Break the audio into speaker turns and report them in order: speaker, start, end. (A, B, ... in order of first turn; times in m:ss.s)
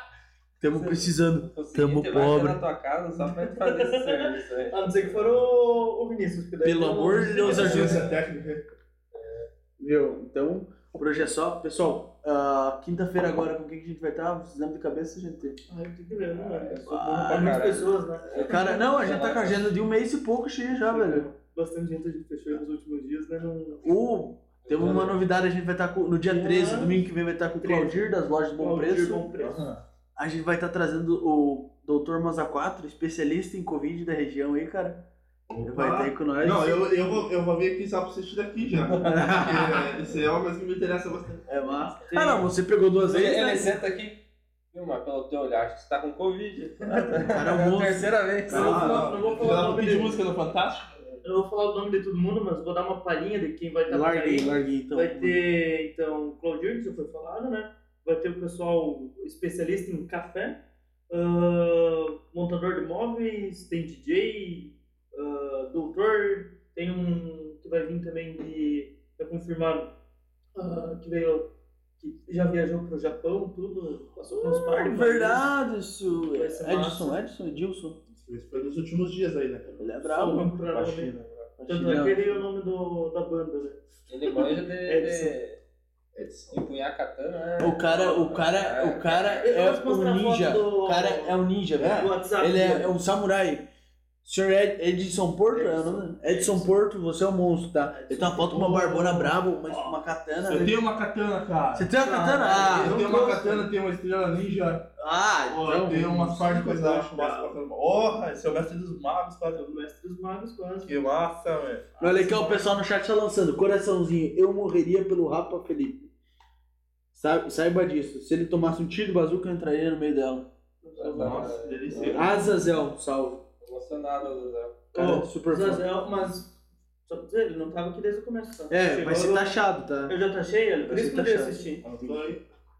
0:00.6-0:02.6 A
0:01.4-0:05.4 B
0:03.2-0:08.1 C
0:06.6-0:08.0 A
0:07.4-0:08.6 D
0:09.1-0:09.5 B
0:09.8-0:15.6 A
0:15.7-0:18.9 C
0:16.2-0:19.8 B
0:16.9-0:17.7 A
0:18.3-0:21.3 A
0:20.8-0:23.8 C
0:23.8-0:29.3 A
0:24.6-0:25.2 B
0:26.2-0:27.1 C
0:27.6-0:29.7 C
0:29.4-0:29.8 D
0:30.2-0:35.0 A
0:35.5-0:41.4 D
0:35.6-0:36.9 A
0:39.0-0:39.4 B
0:39.0-0:39.8 A
0:41.5-0:42.5 C
0:41.5-0:43.8 A
0:43.0-0:49.2 B
0:46.8-0:47.3 C
0:47.2-0:49.0 A
0:48.5-0:50.2 C
0:48.5-0:51.0 D
0:51.2-1:09.9 C
0:53.9-0:55.4 A
1:10.6-1:11.5 C
1:12.0-1:15.5 C
1:14.3-1:18.0 A
1:16.3-1:17.2 C
1:18.1-1:19.9 D
1:19.8-1:20.5 A
1:20.0-1:23.8 C
1:20.7-1:21.5 D
1:21.7-1:22.4 A
1:24.1-1:25.6 B
1:24.4-1:25.3 C
1:26.1-1:26.7 D
1:26.5-1:29.5 B
1:27.6-1:33.6 A
1:29.4-1:32.9 C
1:31.8-1:32.1 D
1:34.2-1:40.7 A
1:35.5-1:36.7 C
1:37.9-1:40.0 C
1:40.4-1:41.9 D
1:41.7-1:43.6 A
1:42.0-1:43.5 C
1:42.7-1:44.8 D
1:45.0-1:46.4 A
1:45.5-1:49.6 D
1:46.4-1:47.5 C
1:49.5-1:50.9 C
1:50.8-1:51.9 D
1:52.0-1:52.8 C
1:52.0-1:56.1 A
1:57.1-2:00.5 A
2:00.8-2:02.2 C
2:01.0-2:02.2 B
2:01.2-2:02.6 D
2:02.0-2:03.4 A
2:03.6-2:04.8 B
2:04.9-2:05.9 A
2:04.9-2:11.8 C
2:08.7-2:10.1 A
2:10.9-2:12.1 A
2:11.8-2:12.4 D